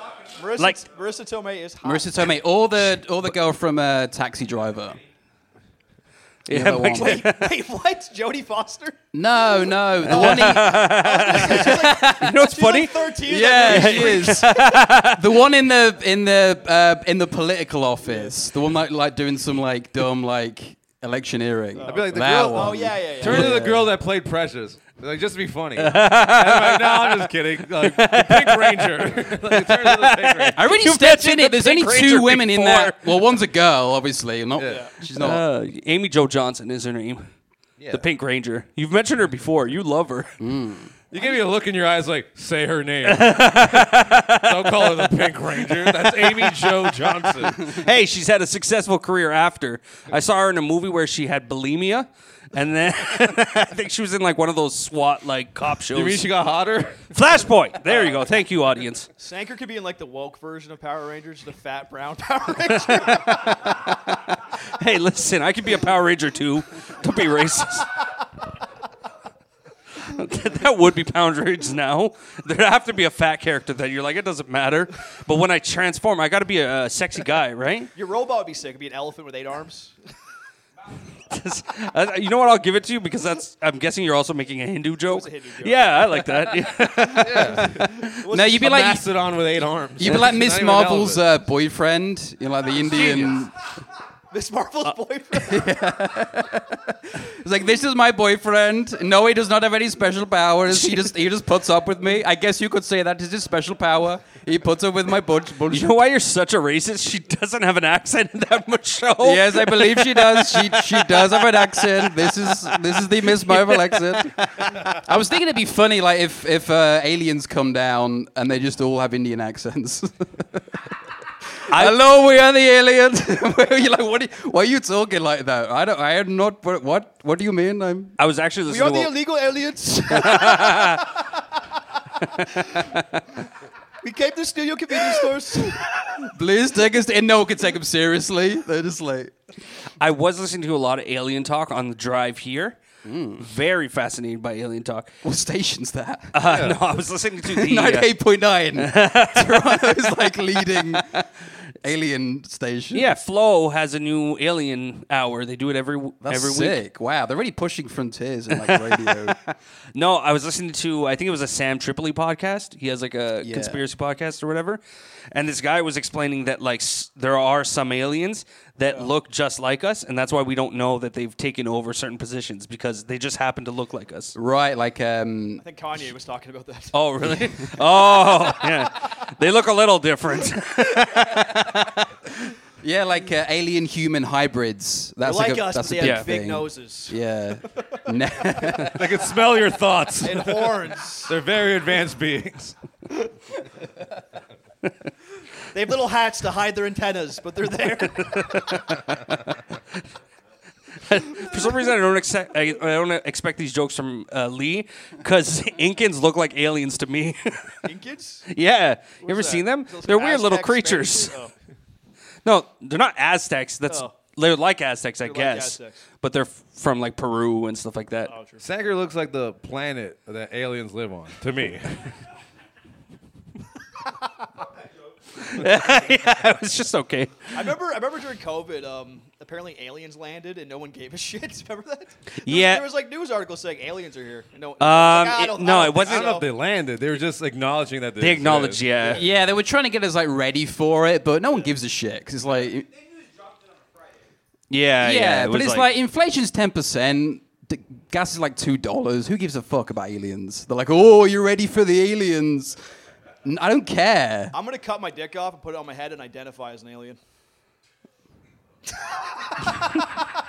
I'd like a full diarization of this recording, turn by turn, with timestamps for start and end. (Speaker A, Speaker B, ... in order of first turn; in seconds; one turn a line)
Speaker A: 0.3-2.3
Speaker B: 0.6-0.8
Speaker C: 1.8-5.0
Speaker B: 6.5-7.5
Speaker C: 6.5-7.3
Speaker A: 6.9-9.0
Speaker C: 9.1-12.3
Speaker A: 10.1-14.7
Speaker B: 10.1-15.2
Speaker C: 13.2-23.9
Speaker A: 18.0-18.3
Speaker A: 21.7-23.5
Speaker D: 21.8-30.6
Speaker B: 25.8-33.3
Speaker C: 30.6-35.4
Speaker D: 34.6-34.8
Speaker A: 34.7-34.9
Speaker B: 35.1-37.2
Speaker D: 37.8-38.0
Speaker B: 37.9-40.3
Speaker C: 40.4-40.9
Speaker D: 41.1-47.7
Speaker B: 43.1-45.0
Speaker B: 45.7-46.7
Speaker B: 47.6-56.3
Speaker D: 55.9-57.1
Speaker B: 57.1-59.1
Speaker A: 57.9-58.2
Speaker A: 59.2-63.6
Speaker B: 62.9-67.9
Speaker B: 70.0-77.9
Speaker A: 77.9-80.0
Speaker B: 81.3-87.8
Speaker A: 85.0-86.3
Speaker D: 87.1-91.3
Speaker A: 88.0-88.6
Speaker C: 88.3-89.0
Speaker C: 90.0-93.5
Speaker B: 92.9-93.3
Speaker A: 94.3-95.7
Speaker C: 95.3-105.9
Speaker B: 100.7-101.0
Speaker B: 105.7-112.7
Speaker C: 109.2-120.9
Speaker B: 113.2-114.4
Speaker B: 121.7-121.9
Speaker C: 121.7-128.2
Speaker B: 128.2-129.1
Speaker A: 128.7-131.6
Speaker B: 130.1-131.0
Speaker B: 132.2-133.0
Speaker A: 134.0-135.8
Speaker C: 135.8-139.3
Speaker B: 140.0-142.8
Speaker C: 143.0-143.5
Speaker B: 143.4-145.1
Speaker C: 145.2-146.3
Speaker B: 146.3-148.1
Speaker D: 146.4-146.8
Speaker C: 147.4-151.3
Speaker B: 148.8-149.8
Speaker C: 151.8-153.1
Speaker B: 152.9-156.8
Speaker C: 156.2-159.4
Speaker B: 158.5-174.3
Speaker C: 163.4-163.8
Speaker C: 174.3-175.6
Speaker A: 175.6-177.0
Speaker B: 176.9-182.1
Speaker C: 182.8-189.0
Speaker A: 185.2-187.2
Speaker B: 186.0-186.3
Speaker D: 188.9-192.8
Speaker A: 190.2-191.3
Speaker A: 195.7-198.8
Speaker B: 198.2-199.3
Speaker B: 201.0-207.8
Speaker A: 207.8-208.4
Speaker B: 208.5-211.3
Speaker A: 209.2-211.5
Speaker B: 212.4-218.3
Speaker A: 213.9-214.2
Speaker A: 215.2-216.0
Speaker A: 218.2-218.6
Speaker D: 218.6-222.1
Speaker B: 225.4-227.5
Speaker A: 227.5-236.4
Speaker B: 232.4-232.8
Speaker B: 234.8-236.2
Speaker D: 235.9-239.2
Speaker B: 238.2-239.2
Speaker C: 239.2-242.9
Speaker B: 244.7-245.9
Speaker C: 245.0-252.8
Speaker C: 253.4-254.5
Speaker A: 254.5-257.2
Speaker A: 259.5-260.3